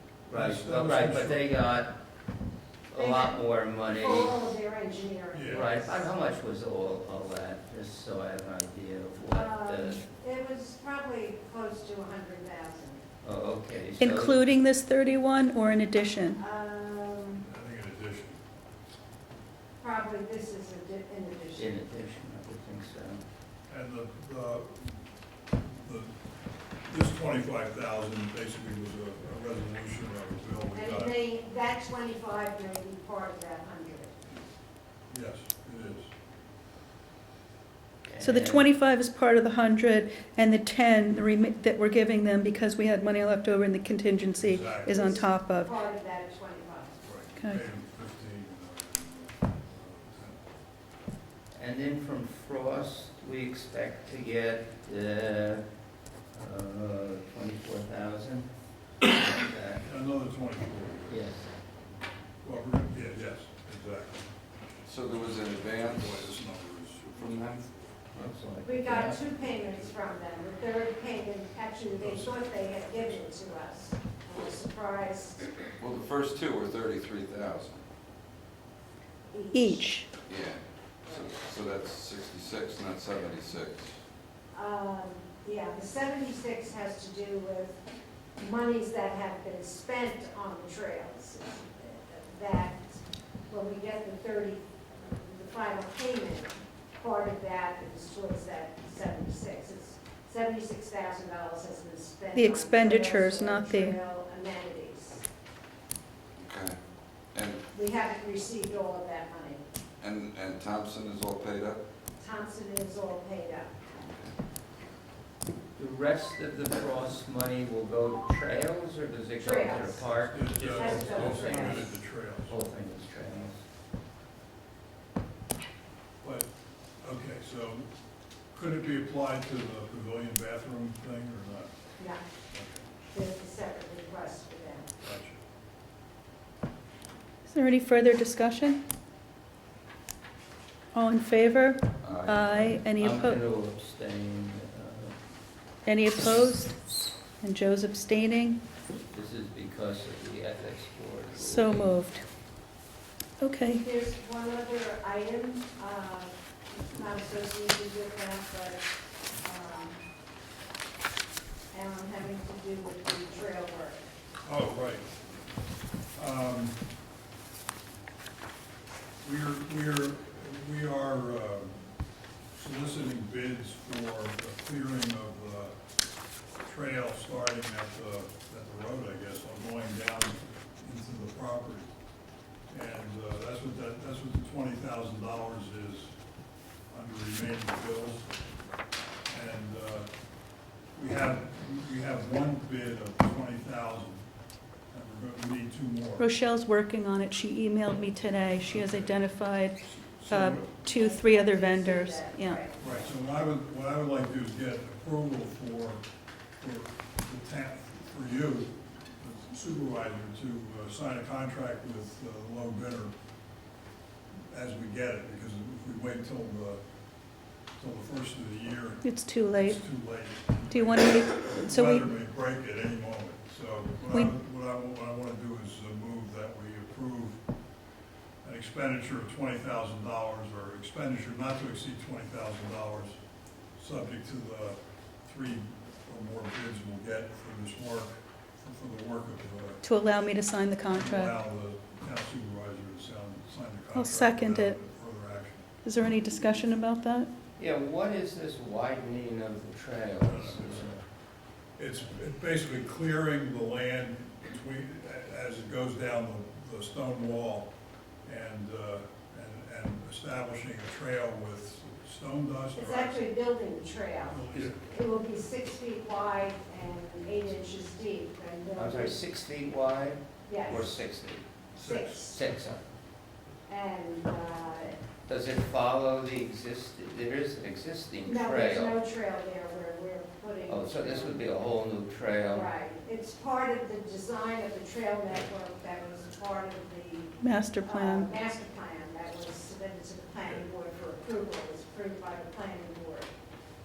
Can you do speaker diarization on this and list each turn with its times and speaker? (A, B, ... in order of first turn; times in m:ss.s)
0:00.3-0:02.0 A
0:00.3-0:01.5 B
0:02.9-0:04.4 A
0:03.0-0:06.0 C
0:05.3-0:05.8 B
0:05.5-0:10.0 A
0:09.3-0:13.0 C
0:13.2-0:14.5 A
0:14.0-0:16.4 D
0:16.4-0:17.5 C
0:17.4-0:18.4 B
0:19.8-0:21.7 C
0:21.6-0:23.2 A
0:23.7-0:25.0 B
0:25.6-0:26.1 B
0:26.9-0:31.1 B
0:30.7-0:34.2 C
0:35.1-0:36.1 B
0:38.1-0:38.7 A
0:38.2-0:45.7 D
0:44.4-0:45.1 B
0:44.9-0:47.0 C
0:47.0-0:50.4 B
0:51.5-0:55.6 A
0:56.3-0:58.5 A
0:59.0-0:59.8 A
0:59.8-1:01.3 B
1:01.1-1:01.5 A
1:02.4-1:04.3 B
1:04.8-1:06.3 E
1:05.8-1:07.2 B
1:07.2-1:07.7 E
1:08.1-1:09.2 A
1:08.6-1:15.5 C
1:12.0-1:12.5 B
1:15.8-1:17.8 E
1:19.3-1:19.9 C
1:19.5-1:20.1 D
1:20.3-1:23.9 E
1:24.5-1:27.8 C
1:28.4-1:45.2 C
1:42.4-1:44.0 D
1:46.4-1:46.8 E
1:47.3-1:47.6 E
1:47.7-1:49.6 C
1:50.0-1:51.8 E
1:52.2-1:53.8 C
1:53.9-1:54.3 E
1:55.8-2:03.6 A
1:59.4-2:00.1 C
2:00.1-2:02.5 B
2:00.6-2:01.9 C
2:06.2-2:06.5 B
2:07.0-2:07.9 B
2:08.5-2:11.7 B
2:12.5-2:12.9 B
2:13.1-2:14.9 C
2:15.0-2:15.4 B
2:17.5-2:18.8 D
2:20.9-2:23.4 D
2:22.0-2:22.8 E
2:23.0-2:25.2 A
2:25.9-2:26.8 D
2:27.4-2:28.6 D
2:29.1-2:32.0 A
2:31.4-2:32.2 D
2:33.4-2:33.8 D
2:33.8-2:38.8 C
2:39.4-2:40.0 C
2:41.7-2:44.1 C
2:44.4-2:45.1 B
2:46.2-2:46.8 B
2:49.2-2:51.9 B
2:52.5-2:55.7 B
2:56.6-3:01.9 B
3:02.7-3:06.1 B
3:06.9-3:08.3 B
3:09.3-3:10.1 B
3:11.0-3:14.2 B
3:14.9-3:16.3 B
3:16.2-3:22.6 D
3:18.6-3:19.2 B
3:19.8-3:20.8 B
3:20.9-3:22.8 C
3:22.8-3:26.0 B
3:26.6-3:33.1 B
3:34.5-3:36.8 B
3:37.8-3:39.0 B
3:39.0-3:39.8 D
3:39.5-3:47.4 B
3:40.7-3:42.0 D
3:48.4-3:53.2 B
3:53.8-3:59.8 B
3:59.8-4:01.3 D
4:00.9-4:05.7 B
4:03.9-4:04.8 D
4:05.8-4:07.3 D
4:07.6-4:11.0 A
4:10.2-4:11.0 B
4:11.8-4:17.7 B
4:18.2-4:23.2 B
4:22.8-4:29.2 C
4:24.3-4:24.8 B
4:28.8-4:31.4 A
4:30.5-4:30.9 C
4:31.8-4:32.4 C
4:31.8-4:32.4 B
4:32.3-4:32.8 A
4:33.7-4:35.0 C
4:35.3-4:39.0 A
4:38.2-4:41.6 C
4:40.6-4:42.7 A
4:42.5-4:53.3 C
4:47.4-4:48.3 D